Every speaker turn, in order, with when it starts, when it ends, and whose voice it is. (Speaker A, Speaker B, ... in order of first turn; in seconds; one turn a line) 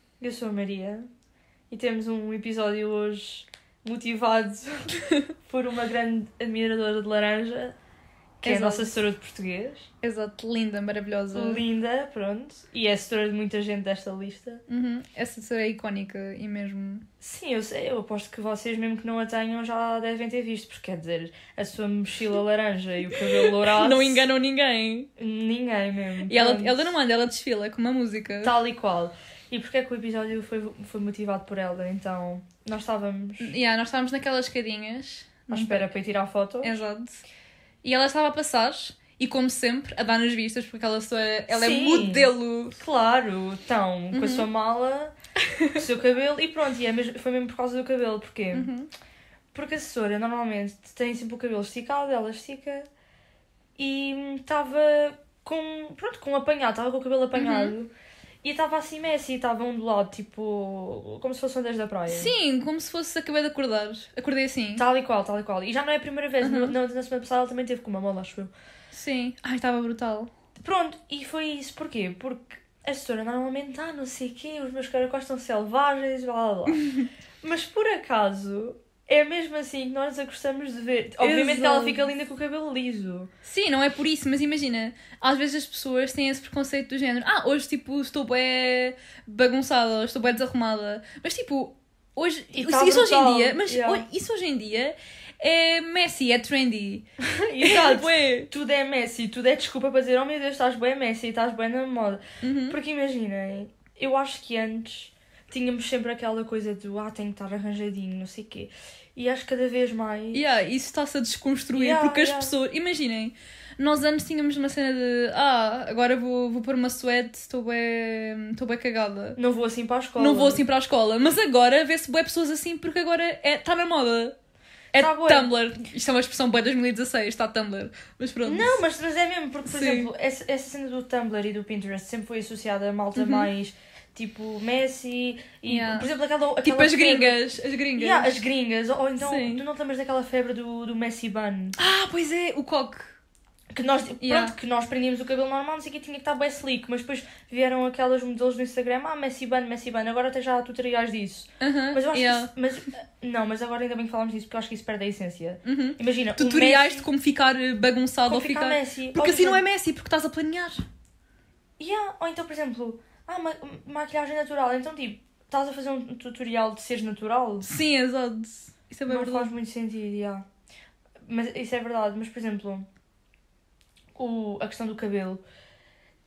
Speaker A: 0.2-1.1
Speaker A: 1.7-4.9
Speaker A: 5.4-7.8
Speaker A: 8.4-9.9
Speaker B: 8.4-8.9
Speaker B: 10.0-11.6
Speaker A: 11.3-14.6
Speaker B: 14.7-17.1
Speaker A: 17.2-24.2
Speaker B: 23.4-25.1
Speaker A: 25.2-26.9
Speaker B: 26.3-28.6
Speaker A: 28.4-33.5
Speaker B: 33.4-35.9
Speaker A: 35.5-36.8
Speaker B: 36.6-37.2
Speaker B: 37.8-42.8
Speaker A: 41.5-45.1
Speaker B: 44.1-44.5
Speaker A: 45.7-48.7
Speaker B: 48.5-48.9
Speaker A: 49.5-52.9
Speaker A: 53.8-57.9
Speaker B: 57.3-57.7
Speaker A: 58.4-62.3
Speaker B: 62.1-64.8
Speaker A: 64.8-68.5
Speaker B: 66.4-66.7
Speaker B: 68.9-70.3
Speaker A: 70.6-76.8
Speaker B: 76.7-77.0
Speaker A: 77.4-83.3
Speaker B: 81.2-82.1
Speaker B: 83.4-97.0
Speaker A: 92.5-94.0
Speaker A: 97.3-110.4
Speaker B: 97.6-98.5
Speaker B: 102.4-102.8
Speaker B: 110.3-119.4
Speaker A: 111.7-112.5
Speaker A: 119.4-120.6
Speaker B: 120.2-124.3
Speaker B: 124.9-128.8
Speaker A: 124.9-125.5
Speaker A: 128.4-137.4
Speaker B: 129.7-130.1
Speaker B: 133.2-133.5
Speaker B: 135.7-136.1
Speaker B: 136.6-138.5
Speaker A: 137.9-141.8
Speaker B: 139.2-139.6
Speaker B: 141.8-143.2
Speaker A: 143.7-157.1
Speaker B: 144.2-144.6
Speaker B: 151.6-152.5
Speaker B: 155.6-160.8
Speaker A: 158.2-159.6
Speaker A: 161.8-167.7
Speaker B: 167.6-169.5
Speaker A: 169.1-170.4
Speaker A: 171.2-172.9
Speaker A: 174.2-175.4